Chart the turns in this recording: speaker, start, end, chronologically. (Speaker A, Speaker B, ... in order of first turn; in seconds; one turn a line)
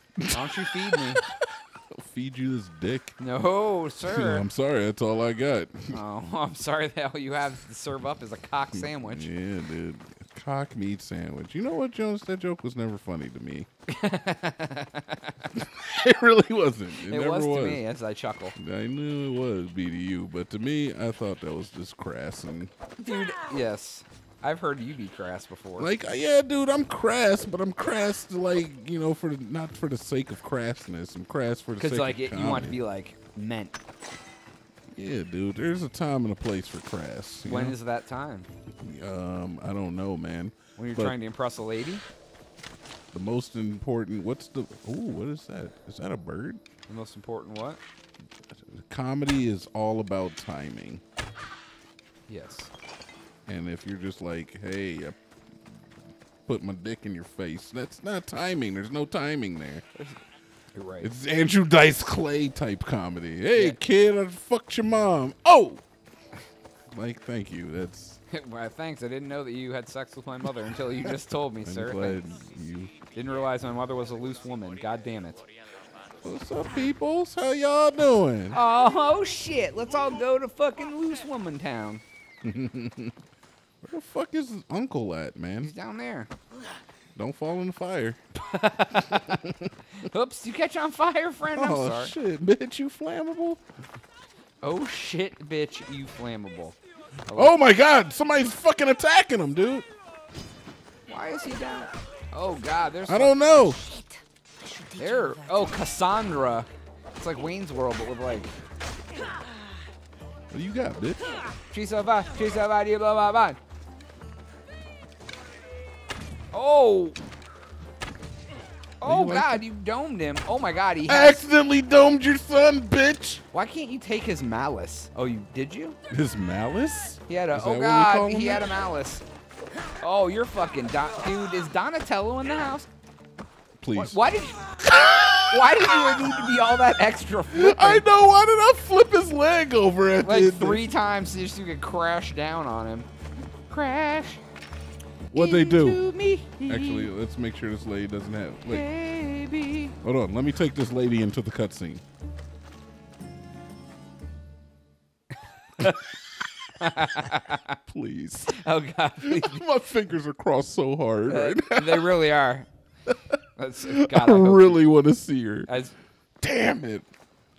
Speaker A: 0.2-3.2
Speaker B: 0.3-1.2
Speaker B: 3.2-4.5
Speaker A: 4.0-6.0
Speaker B: 5.9-9.3
Speaker A: 8.7-13.7
Speaker B: 13.9-15.4
Speaker A: 15.5-17.8
Speaker B: 17.0-18.6
Speaker A: 18.5-22.7
Speaker B: 23.0-25.9
Speaker A: 25.8-32.8
Speaker B: 31.8-33.8
Speaker A: 34.9-37.8
Speaker B: 37.4-38.5
Speaker A: 38.8-41.1
Speaker B: 40.8-42.0
Speaker A: 43.1-46.6
Speaker B: 46.9-47.8
Speaker A: 48.5-51.0
Speaker B: 52.3-52.7
Speaker A: 53.5-55.1
Speaker A: 56.5-59.8
Speaker B: 60.7-61.1
Speaker A: 61.0-65.8
Speaker A: 66.9-68.2
Speaker B: 68.3-72.2
Speaker A: 71.6-73.0
Speaker B: 73.1-75.4
Speaker A: 76.2-78.6
Speaker B: 78.5-82.0
Speaker A: 82.4-83.2
Speaker A: 83.8-85.7
Speaker B: 85.6-86.3
Speaker A: 87.2-88.2
Speaker B: 88.4-89.4
Speaker A: 88.9-89.7
Speaker B: 90.0-92.1
Speaker A: 91.5-93.6
Speaker B: 94.6-96.8
Speaker B: 97.3-97.5
Speaker A: 97.3-99.8
Speaker B: 101.1-103.5
Speaker A: 103.1-103.8
Speaker C: 103.7-105.8
Speaker B: 105.0-108.5
Speaker A: 110.5-111.4
Speaker B: 111.7-113.6
Speaker B: 116.5-117.2
Speaker B: 119.0-121.4
Speaker A: 119.0-119.6
Speaker A: 121.0-123.4
Speaker B: 123.5-126.0
Speaker A: 126.1-128.7
Speaker B: 127.3-129.2
Speaker B: 130.0-132.9
Speaker A: 133.8-134.2
Speaker B: 133.9-134.7
Speaker A: 134.8-136.4
Speaker B: 135.3-138.0
Speaker A: 137.5-140.9
Speaker B: 140.2-143.1
Speaker B: 143.7-144.4
Speaker A: 145.3-146.0
Speaker B: 145.3-147.1
Speaker A: 146.6-148.9
Speaker B: 148.7-149.9
Speaker A: 150.0-152.0
Speaker B: 155.8-156.0
Speaker B: 156.8-157.8
Speaker A: 157.9-158.6
Speaker B: 158.5-159.6
Speaker A: 159.2-162.2
Speaker B: 161.3-162.7
Speaker B: 163.6-164.8
Speaker A: 163.8-165.7
Speaker B: 165.7-165.9
Speaker A: 166.4-167.1